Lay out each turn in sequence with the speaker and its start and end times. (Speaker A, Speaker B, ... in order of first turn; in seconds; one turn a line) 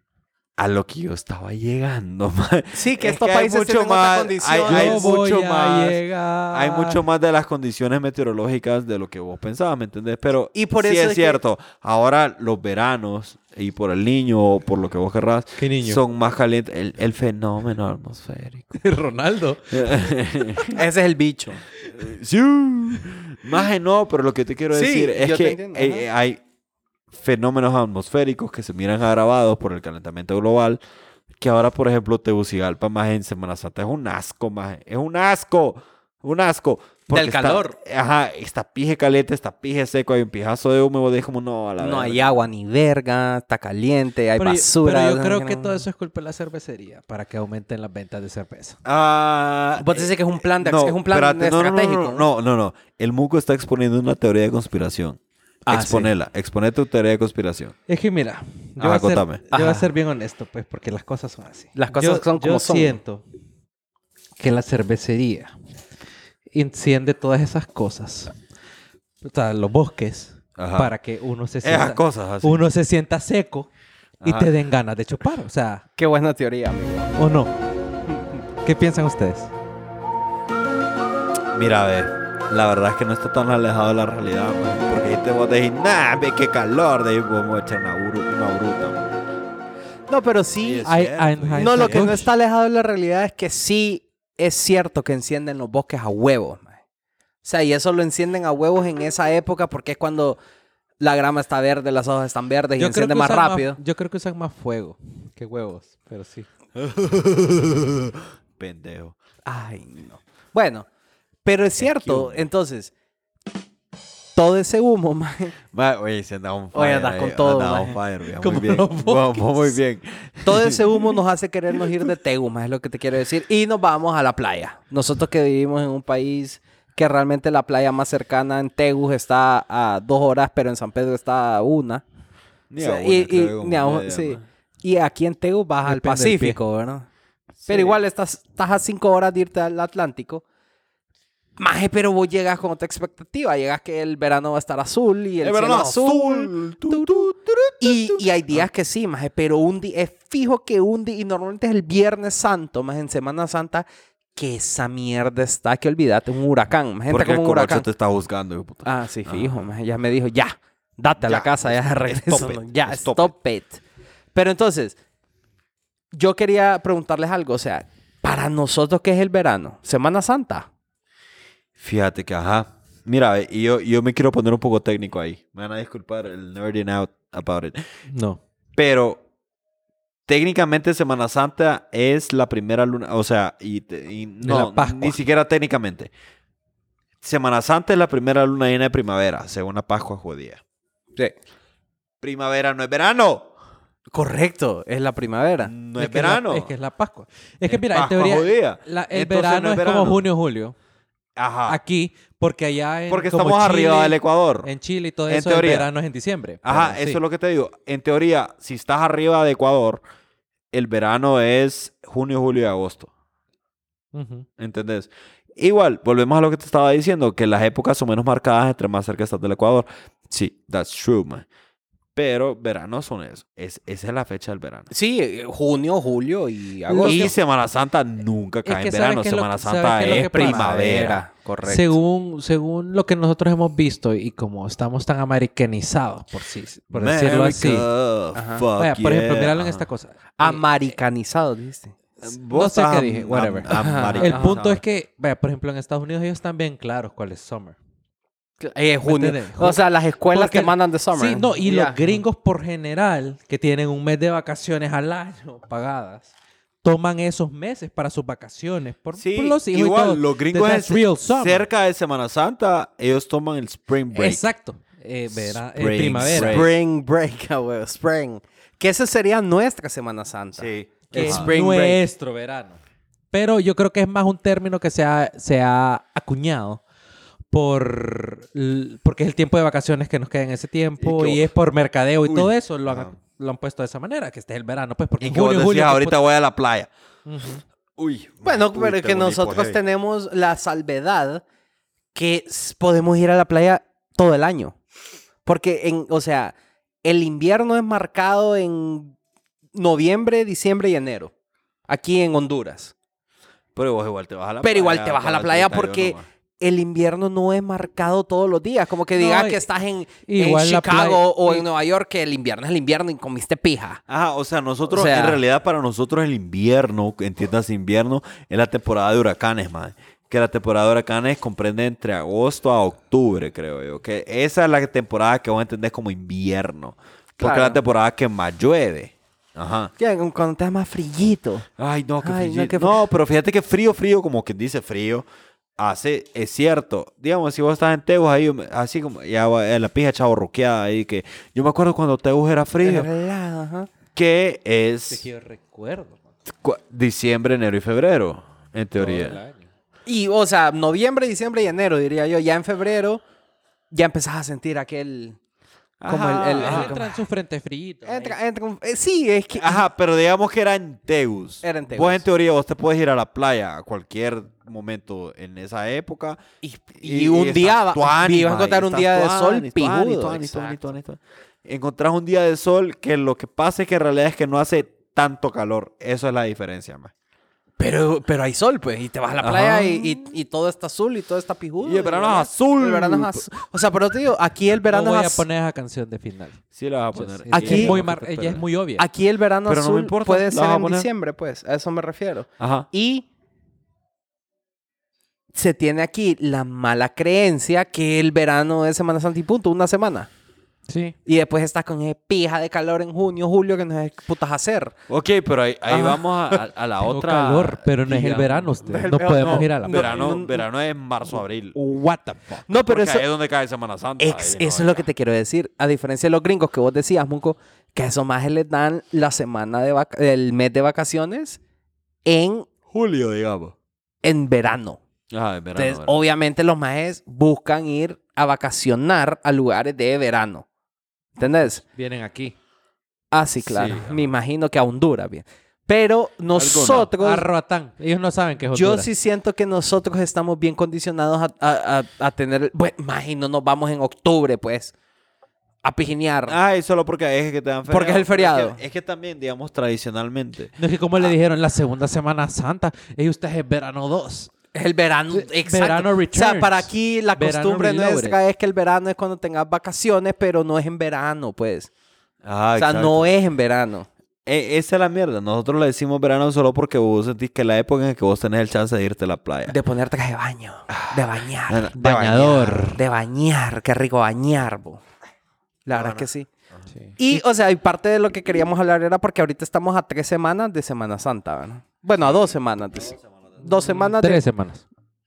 Speaker A: 0.6-18.8
Speaker B: 2.7-5.0
Speaker C: 4.7-7.0
Speaker B: 10.5-11.4
Speaker C: 15.6-16.0
Speaker C: 18.8-20.1
Speaker A: 19.7-20.8
Speaker B: 20.7-21.6
Speaker A: 21.9-26.4
Speaker B: 24.7-26.1
Speaker A: 27.1-30.8
Speaker A: 31.4-42.5
Speaker B: 37.1-37.8
Speaker B: 41.8-45.9
Speaker C: 44.4-48.8
Speaker A: 48.9-57.8
Speaker B: 49.8-52.2
Speaker B: 55.7-56.1
Speaker C: 57.9-63.2
Speaker A: 58.8-59.4
Speaker B: 59.5-59.9
Speaker B: 61.8-63.0
Speaker C: 64.4-65.5
Speaker C: 66.5-68.3
Speaker C: 69.2-73.7
Speaker A: 70.6-70.9
Speaker A: 71.6-72.6
Speaker A: 74.2-74.5
Speaker C: 74.2-75.8
Speaker B: 76.0-77.1
Speaker C: 77.2-77.5
Speaker B: 78.1-78.4
Speaker C: 78.6-79.5
Speaker A: 81.5-89.1
Speaker B: 90.1-90.9
Speaker A: 90.6-92.2
Speaker C: 90.8-92.3
Speaker B: 91.6-96.8
Speaker B: 97.4-100.4
Speaker B: 101.0-103.8
Speaker C: 102.8-106.5
Speaker A: 106.8-109.1
Speaker B: 109.4-110.9
Speaker B: 111.4-112.9
Speaker A: 111.8-112.5
Speaker B: 114.3-115.5
Speaker A: 115.7-121.1
Speaker B: 116.7-118.0
Speaker C: 118.4-119.6
Speaker B: 118.6-119.1
Speaker B: 120.4-132.0
Speaker A: 132.7-134.4
Speaker B: 132.8-137.1
Speaker C: 135.8-136.6
Speaker A: 137.6-138.0
Speaker B: 137.7-140.4
Speaker B: 141.6-157.9
Speaker A: 145.4-148.2
Speaker A: 157.1-159.6
Speaker B: 158.8-163.8
Speaker A: 161.2-163.3
Speaker B: 164.3-165.0
Speaker B: 166.1-170.7
Speaker A: 171.8-177.9
Speaker C: 178.1-178.4
Speaker A: 178.8-179.2
Speaker A: 180.3-186.1
Speaker C: 184.4-185.2
Speaker A: 187.2-190.6
Speaker A: 192.2-193.5
Speaker B: 194.1-195.7
Speaker A: 195.6-196.7
Speaker C: 196.0-200.8
Speaker A: 197.7-200.2
Speaker A: 201.4-201.8
Speaker C: 201.7-207.2
Speaker A: 203.1-204.7
Speaker A: 205.3-205.9
Speaker A: 206.6-210.0
Speaker A: 210.7-213.1
Speaker C: 214.1-214.4
Speaker A: 214.6-221.4
Speaker A: 222.1-224.9
Speaker B: 224.9-227.3
Speaker C: 226.9-227.3
Speaker A: 227.0-231.2
Speaker C: 228.7-237.9
Speaker B: 230.0-232.0
Speaker A: 236.9-239.8
Speaker B: 238.3-238.6
Speaker C: 238.8-240.6
Speaker B: 240.4-241.9
Speaker A: 242.2-244.8
Speaker C: 242.5-247.8
Speaker B: 243.7-244.6
Speaker B: 248.6-252.0
Speaker C: 249.0-256.3
Speaker C: 256.8-261.6
Speaker A: 259.1-264.4
Speaker C: 264.1-266.6
Speaker A: 265.3-266.7
Speaker B: 266.3-272.0
Speaker A: 270.6-271.5
Speaker C: 271.1-272.8
Speaker C: 273.3-276.8
Speaker C: 277.5-286.2
Speaker A: 281.0-281.4
Speaker A: 282.2-283.1
Speaker A: 285.2-286.9
Speaker C: 287.2-287.6
Speaker A: 288.0-289.8
Speaker B: 288.4-291.4
Speaker B: 292.1-294.8
Speaker B: 295.4-299.1
Speaker B: 299.7-301.3
Speaker B: 301.9-302.9
Speaker A: 303.8-306.2
Speaker B: 304.6-314.0
Speaker C: 309.1-309.6
Speaker C: 310.2-311.6
Speaker A: 314.1-329.9
Speaker B: 314.9-315.4
Speaker B: 327.4-327.8
Speaker B: 330.0-331.7
Speaker A: 331.8-335.2
Speaker B: 332.2-333.0
Speaker A: 335.8-343.1
Speaker B: 342.8-343.9
Speaker A: 344.1-345.2
Speaker C: 345.1-346.2
Speaker A: 346.5-349.4
Speaker C: 348.9-349.7
Speaker B: 350.1-353.2
Speaker B: 353.9-355.4
Speaker A: 356.0-356.9
Speaker B: 356.1-357.2
Speaker C: 356.5-358.4
Speaker B: 358.0-359.9
Speaker A: 359.6-366.4
Speaker B: 361.6-362.2
Speaker B: 366.6-370.9
Speaker A: 367.0-377.1
Speaker B: 377.8-385.4
Speaker A: 379.4-380.3
Speaker A: 381.8-383.5
Speaker C: 384.9-386.6
Speaker A: 386.8-388.6
Speaker C: 387.1-389.1
Speaker B: 387.5-388.0
Speaker B: 389.0-393.2
Speaker A: 389.6-391.1
Speaker A: 392.6-392.9
Speaker B: 395.5-400.3
Speaker C: 400.9-401.1
Speaker B: 401.2-404.9
Speaker A: 405.1-411.8
Speaker B: 405.9-406.2
Speaker C: 407.0-410.2
Speaker B: 408.9-410.6
Speaker C: 411.7-412.6
Speaker B: 412.7-413.3
Speaker A: 412.8-415.1
Speaker B: 414.2-421.6
Speaker B: 422.2-422.7
Speaker A: 422.9-423.7
Speaker B: 424.2-425.0
Speaker A: 425.3-426.2
Speaker B: 425.8-430.6
Speaker B: 431.4-431.8
Speaker C: 431.8-432.6
Speaker B: 433.3-437.5
Speaker A: 433.6-434.3
Speaker A: 436.6-437.1
Speaker C: 436.8-439.1
Speaker B: 438.7-444.9
Speaker B: 445.8-446.6
Speaker A: 446.5-451.3
Speaker B: 447.9-448.8
Speaker C: 450.8-454.5
Speaker B: 454.7-461.9
Speaker C: 455.3-458.4
Speaker A: 462.4-463.3
Speaker B: 462.8-464.1
Speaker A: 464.4-469.7
Speaker B: 469.7-475.0
Speaker A: 470.9-472.9
Speaker C: 472.0-473.0
Speaker B: 475.9-476.5
Speaker A: 475.9-476.3
Speaker C: 476.9-477.3
Speaker B: 477.2-484.4
Speaker C: 483.7-484.8